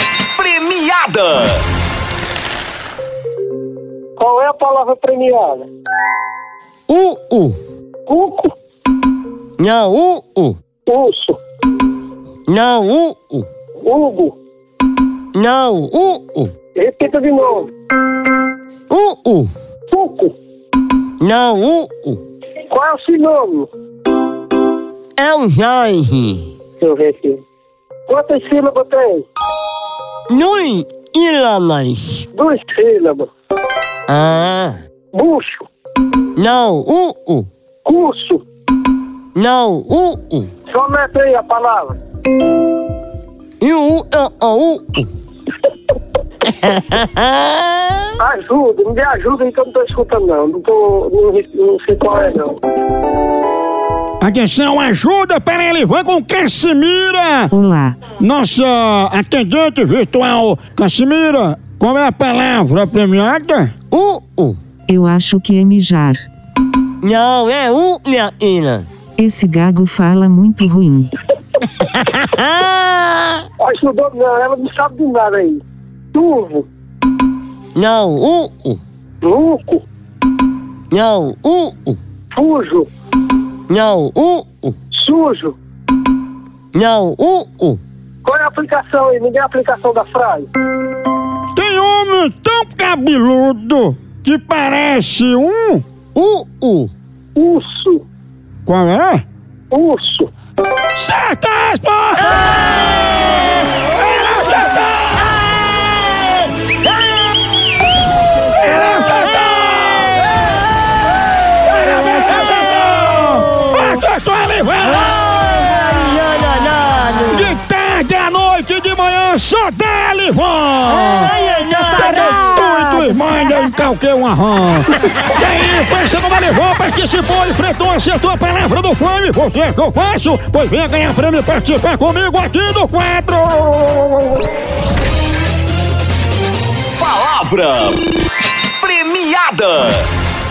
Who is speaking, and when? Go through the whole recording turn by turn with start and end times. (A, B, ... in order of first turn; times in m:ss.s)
0:00.4-0:01.6 A
0:04.2-0:05.7 B
0:06.9-0:07.6 C
0:08.1-0:08.5 B
0:09.6-0:10.6 C
0:10.8-0:11.4 B
0:12.5-0:13.5 C
0:13.8-0:14.4 B
0:15.3-0:16.5 C
0:16.7-0:17.7 B
0:18.9-0:19.5 C
0:19.9-0:20.3 B
0:21.2-0:22.2 C
0:22.7-0:23.7 B
0:25.2-0:26.5 C
0:26.8-0:27.4 B
0:28.1-0:29.3 B
0:30.3-0:32.2 C
0:32.3-0:33.3 B
0:34.1-0:34.8 C
0:35.1-0:35.7 B
0:36.4-0:37.5 C
0:37.8-0:38.4 B
0:39.4-0:40.5 C
0:40.7-0:42.0 B
0:43.6-0:45.1 C
0:46.4-0:48.1 C
0:48.2-0:52.6 B
0:54.2-0:57.5 D
0:57.5-0:58.0 E
0:58.1-1:03.7 D
1:03.9-1:04.6 C
1:04.9-1:06.2 E
1:07.0-1:08.9 C
1:09.2-1:11.1 E
1:11.6-1:13.4 C
1:13.6-1:15.6 B
1:16.1-1:16.7 B
1:17.8-1:18.8 C
1:19.2-1:19.8 B
1:20.9-1:22.0 C
1:22.3-1:22.9 B
1:23.7-1:24.8 C
1:24.9-1:25.6 B
1:26.7-1:27.8 C
1:28.2-1:30.5 B
1:31.5-1:35.8 D
1:36.1-1:36.9 C
1:37.4-1:38.0 B
1:38.6-1:39.2 D
1:39.7-1:40.3 B
1:40.9-1:45.4 D
1:48.5-1:50.4 D
1:51.7-1:55.1 D
1:51.9-1:54.0 C
1:54.9-1:57.5 C
1:57.2-2:01.3 D
2:00.9-2:02.4 C
2:01.9-2:14.4 D
2:17.0-2:18.0 A
2:18.8-2:20.1 A